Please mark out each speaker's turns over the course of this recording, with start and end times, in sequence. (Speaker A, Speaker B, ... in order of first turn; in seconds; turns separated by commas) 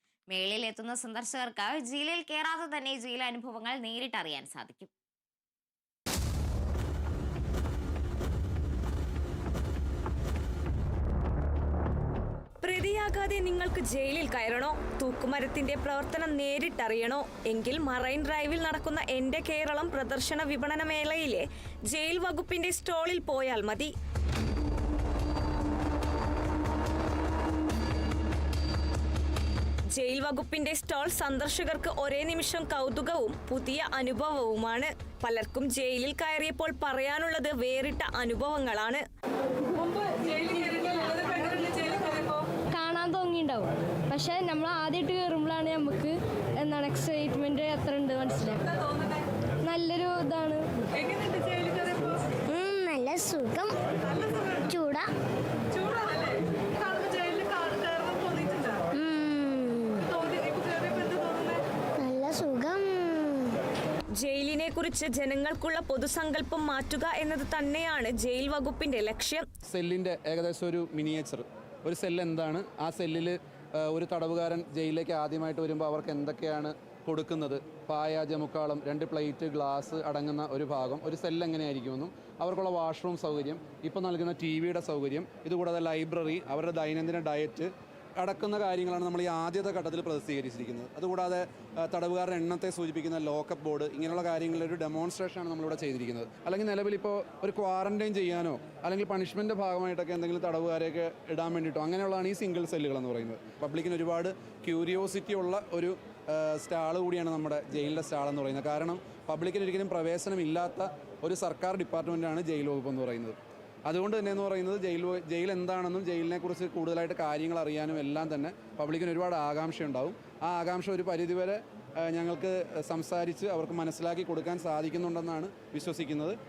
Speaker A: 0.3-4.9, Speaker B: 12.6-23.9, Speaker B: 30.0-39.0, Speaker C: 40.3-48.7, Speaker C: 49.6-52.0, Speaker D: 52.5-55.1, Speaker D: 58.9-60.6, Speaker D: 62.0-63.6, Speaker B: 64.2-69.5, Speaker E: 69.7-126.4